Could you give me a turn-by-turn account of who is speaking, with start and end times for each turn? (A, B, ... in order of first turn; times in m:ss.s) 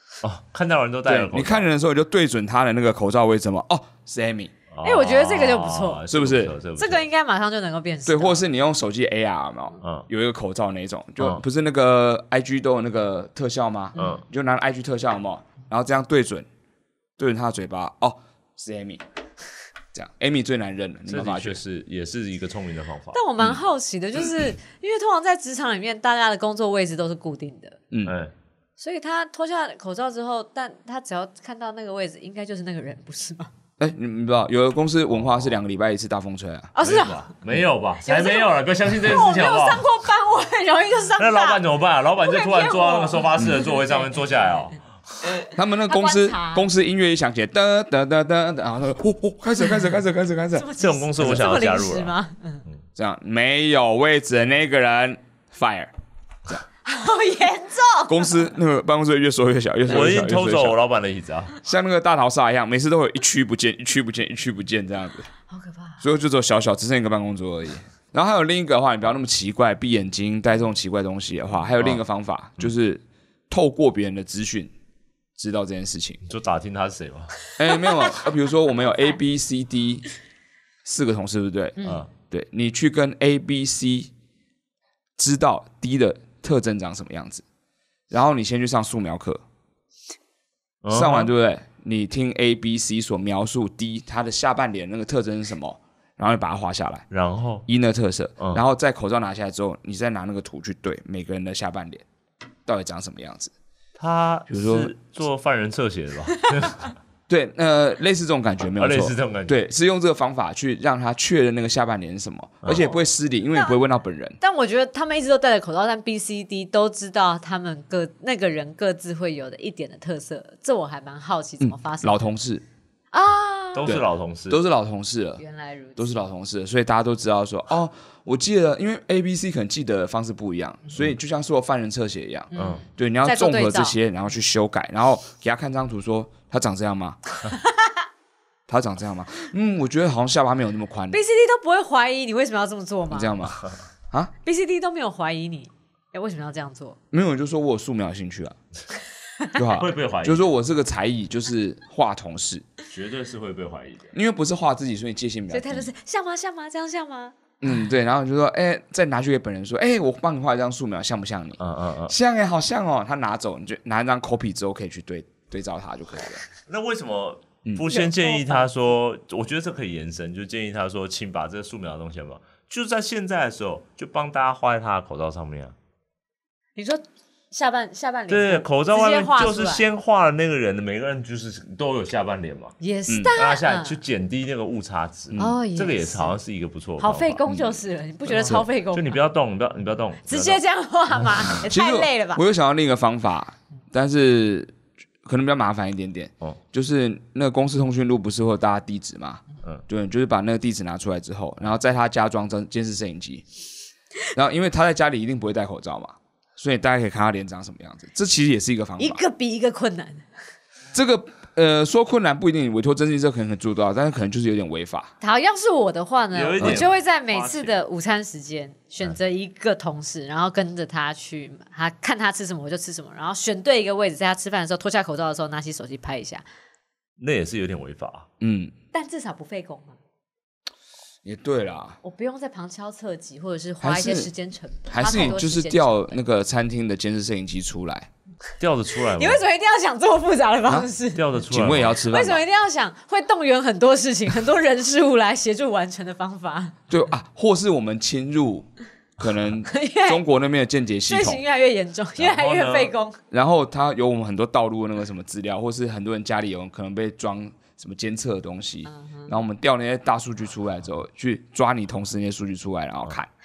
0:00.2-0:01.7 A
0:01.0-0:04.5 B
0:04.7-0:07.0 A
0:04.8-0:06.0 C
0:06.1-0:06.5 B
0:06.8-0:08.4 C
0:08.0-0:16.5 B
0:09.8-0:10.1 A
0:14.0-0:14.2 A
0:17.2-0:19.0 B
0:19.9-0:21.6 B
0:21.1-0:23.2 A
0:23.1-0:27.8 C
0:28.0-0:28.3 A
0:28.8-0:33.5 C
0:33.8-0:36.7 B
0:35.2-0:35.5 A
0:36.7-0:37.3 C
0:36.8-0:39.8 A
0:38.0-0:41.6 C
0:41.2-0:44.8 A
0:42.2-0:44.2 C
0:45.5-0:51.4 B
0:45.8-0:46.7 C
0:50.6-0:52.6 C
0:50.8-0:52.1 A
0:53.0-0:55.9 B
0:56.8-0:58.3 C
0:58.1-1:00.8 B
0:59.9-1:01.6 A
1:01.6-1:05.3 B
1:05.5-1:06.0 C
1:06.0-1:14.7 B
1:15.4-1:16.2 B
1:16.2-1:17.3 A
1:17.6-1:20.1 B
1:17.7-1:18.1 C
1:20.8-1:24.1 B
1:21.8-1:22.0 C
1:21.8-1:22.1 A
1:25.2-1:27.4 B
1:28.1-1:29.4 B
1:30.8-1:31.3 A
1:30.9-1:37.0 B
1:37.1-1:37.6 A
1:37.7-1:42.0 B
1:42.6-1:43.5 B
1:44.0-1:46.9 A
1:44.5-1:44.9 B
1:47.3-1:54.4 B
1:48.8-1:49.6 A
1:52.6-1:52.9 A
1:53.5-1:53.8 C
1:54.4-2:02.3 C
2:01.6-2:02.6 B
2:03.1-2:03.9 C
2:03.7-2:04.6 A
2:03.8-2:05.4 B
2:05.4-2:06.1 C
2:06.0-2:17.2 B
2:12.5-2:14.0 C
2:12.5-2:12.8 A
2:18.7-2:21.2 B
2:21.1-2:23.5 C
2:23.1-2:23.6 B
2:24.4-2:27.0 C
2:27.1-2:28.6 B
2:29.5-2:32.6 B
2:29.7-2:30.5 A
2:32.9-2:34.1 A
2:34.1-2:35.9 B
2:35.5-2:37.3 C
2:37.6-2:46.4 B
2:41.6-2:42.1 A
2:46.7-2:55.7 A
2:47.9-2:48.7 C
2:56.8-2:59.8 C
2:58.3-3:02.7 A
3:02.8-3:04.0 C
3:03.1-3:03.3 B
3:03.3-3:07.4 A
3:05.3-3:05.6 B
3:05.4-3:06.4 C
3:07.0-3:09.2 C
3:07.5-3:07.8 B
3:08.3-3:10.6 A
3:08.4-3:08.6 B
3:10.3-3:12.4 C
3:11.6-3:23.4 B
3:24.3-3:29.2 B
3:29.0-3:30.2 C
3:30.9-3:35.1 B
3:35.2-3:46.4 C
3:36.3-3:37.8 A
3:47.2-3:48.3 A
3:48.4-3:48.7 B
3:48.9-3:50.0 C
3:51.2-3:52.0 B
3:52.0-3:56.2 C
3:53.8-3:54.3 B
3:54.9-3:58.1 B
3:58.6-3:59.4 A
3:59.2-4:01.3 C
4:01.1-4:02.0 A
4:01.5-4:02.4 B
4:02.0-4:06.8 C
4:06.9-4:08.7 B
4:09.2-4:11.4 B
4:09.6-4:10.2 C
4:11.1-4:13.2 C
4:12.2-4:12.9 A
4:13.3-4:23.3 B
4:18.9-4:19.3 C